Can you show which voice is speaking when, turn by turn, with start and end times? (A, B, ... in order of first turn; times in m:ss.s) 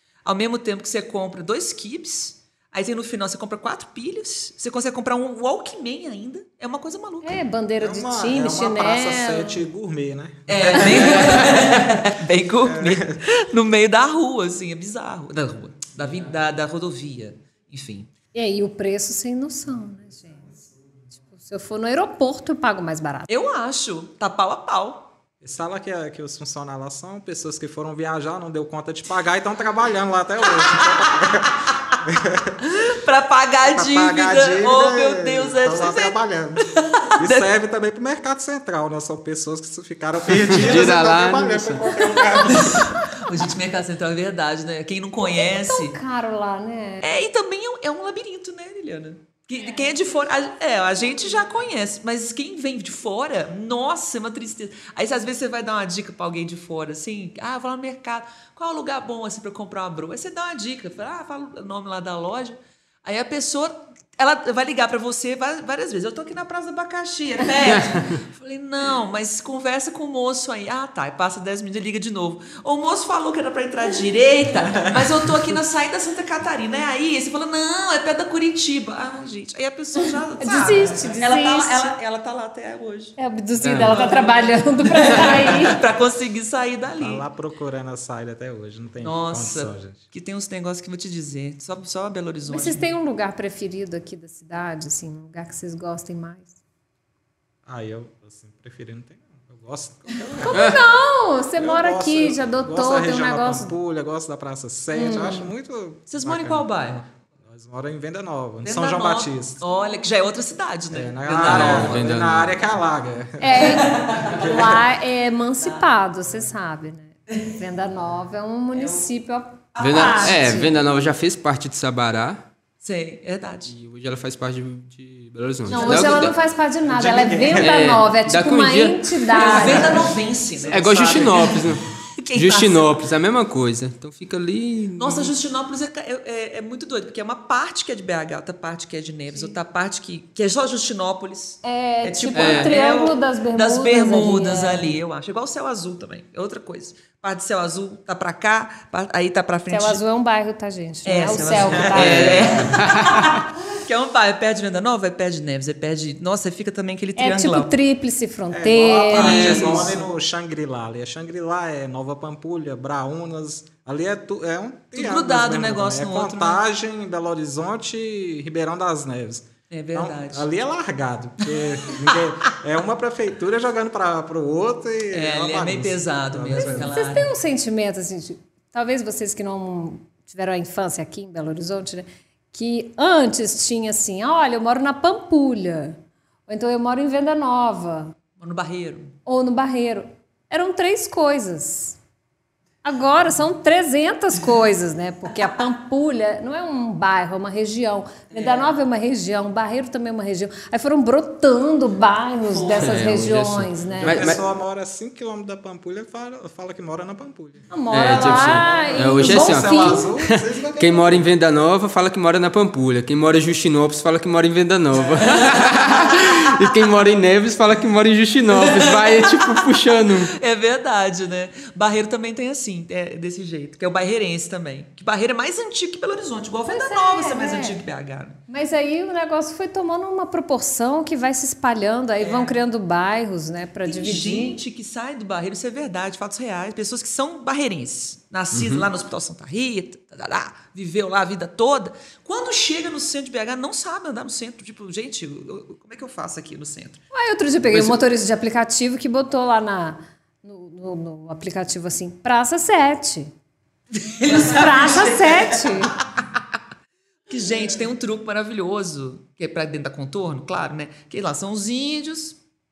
0:00.2-0:07.4 A
0:07.2-0:09.6 B
0:07.8-0:11.7 C
0:10.5-0:18.1 A
0:12.6-0:13.2 C
0:18.3-0:20.6 B
0:21.2-0:23.3 B
0:23.3-0:25.1 A
0:25.4-0:32.6 C
0:30.6-0:32.0 A
0:32.6-0:37.5 A
0:33.6-0:42.9 C
0:40.3-0:41.8 D
0:42.2-0:46.0 A
0:45.3-0:47.0 B
0:47.0-1:23.2 A
1:07.7-1:08.1 D
1:20.4-1:21.9 B
1:23.2-1:25.8 B
1:23.6-1:24.0 D
1:23.8-1:27.2 A
1:27.0-1:30.0 C
1:29.0-1:32.9 A
1:32.5-1:36.5 B
1:37.6-1:40.5 C
1:40.1-1:40.6 A
1:40.4-1:43.7 B
1:40.5-1:40.8 D
1:41.6-1:46.7 C
1:44.9-1:45.5 B
1:46.1-1:47.1 A
1:47.4-1:49.6 C
1:48.6-1:52.0 A
1:50.9-1:54.8 C
1:51.4-1:52.6 D
1:53.4-2:00.7 B
1:53.6-1:54.5 A
1:58.7-1:59.0 A
1:59.7-2:00.7 A
1:59.8-2:02.4 D
2:02.8-2:03.7 A
2:03.7-2:06.3 D
2:05.7-2:10.1 B
2:05.7-2:06.2 A
2:06.8-2:08.0 C
2:07.6-2:10.1 D
2:09.3-2:13.0 A
2:10.7-2:15.3 D
2:15.0-2:30.0 A
2:21.6-2:24.9 B
2:22.3-2:22.7 D
2:29.7-2:32.7 B
2:31.0-2:37.7 A
2:31.6-2:32.7 C
2:32.0-2:33.4 D
2:37.2-2:39.7 B
2:38.5-2:57.0 C
2:39.1-2:40.0 A
2:39.2-2:39.7 D
2:44.9-2:46.6 A
2:49.7-2:50.5 A
2:55.1-2:57.3 A
2:56.6-3:08.2 B
3:08.4-3:09.2 A
3:09.2-3:12.0 B
3:12.8-3:24.3 B
3:18.3-3:18.7 A
3:22.5-3:23.1 A
3:22.8-3:24.4 D
3:23.9-3:31.3 C
3:27.7-3:30.1 B
3:27.9-3:40.3 D
3:38.5-3:48.4 A
3:46.7-3:47.8 B
3:48.5-3:54.6 B
3:52.2-3:52.6 A
3:53.8-4:07.0 A
3:58.5-3:58.9 D
4:07.1-4:13.3 B
4:07.7-4:08.0 D
4:13.9-4:16.0 A
4:14.2-4:16.0 B
4:17.3-4:22.4 A